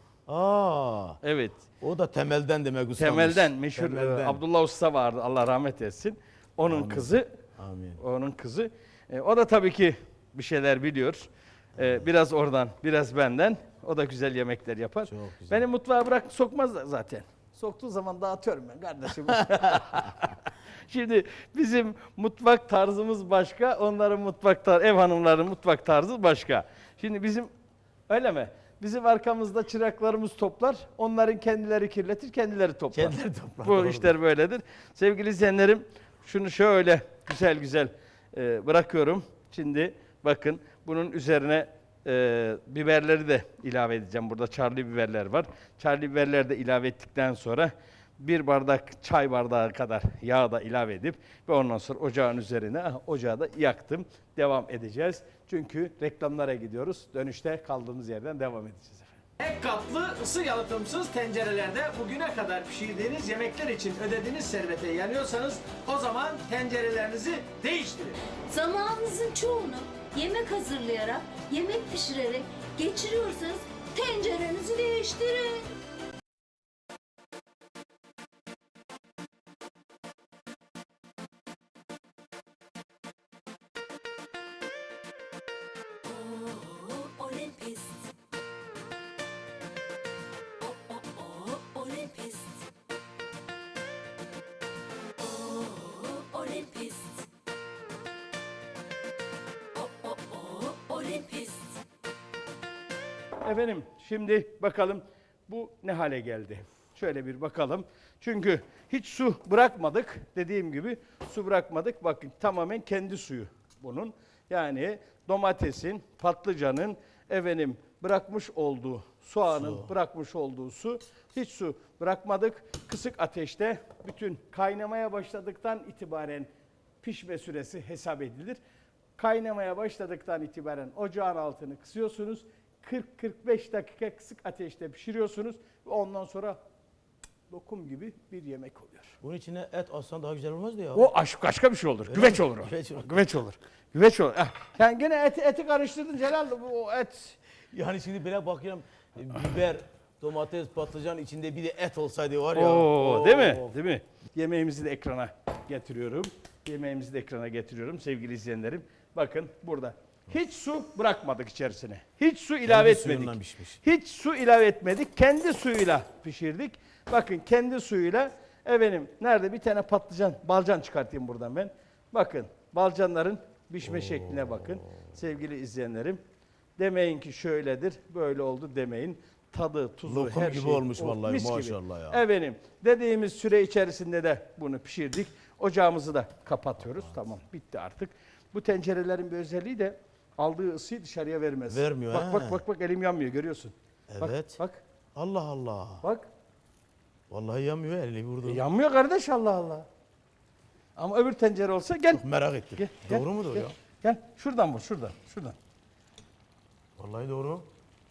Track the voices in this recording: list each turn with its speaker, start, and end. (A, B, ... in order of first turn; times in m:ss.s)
0:00.3-0:01.2 A
0:01.2-0:01.6 B
0:01.8-0:04.4 A
0:03.0-0:07.3 B
0:06.7-0:08.0 A
0:08.0-0:27.5 B
0:11.8-0:12.1 A
0:15.1-0:15.6 A
0:28.1-0:59.2 B
0:32.9-0:34.1 A
0:59.4-1:08.2 C
1:08.5-1:15.7 D
1:27.3-1:27.7 D
1:31.7-1:32.5 D
1:36.3-1:37.2 D
1:40.7-1:41.7 D
1:43.4-2:06.5 B
1:59.5-1:59.9 A
2:07.0-2:08.6 B
2:09.2-2:16.6 B
2:17.5-2:19.2 B
2:19.2-2:21.1 A
2:20.9-2:27.4 B
2:22.1-2:23.2 A
2:27.7-2:33.7 A
2:32.6-2:56.2 B
2:42.6-2:43.8 A
2:53.8-2:54.8 A
2:56.8-3:14.8 B
3:00.0-3:02.2 A
3:11.7-3:12.6 A
3:14.1-3:14.6 A
3:15.1-3:16.1 A
3:16.0-3:16.3 B
3:17.3-3:18.6 A
3:18.4-3:19.9 B
3:21.0-3:22.2 B
3:22.1-3:23.7 A
3:22.8-3:25.6 B
3:27.0-3:27.7 A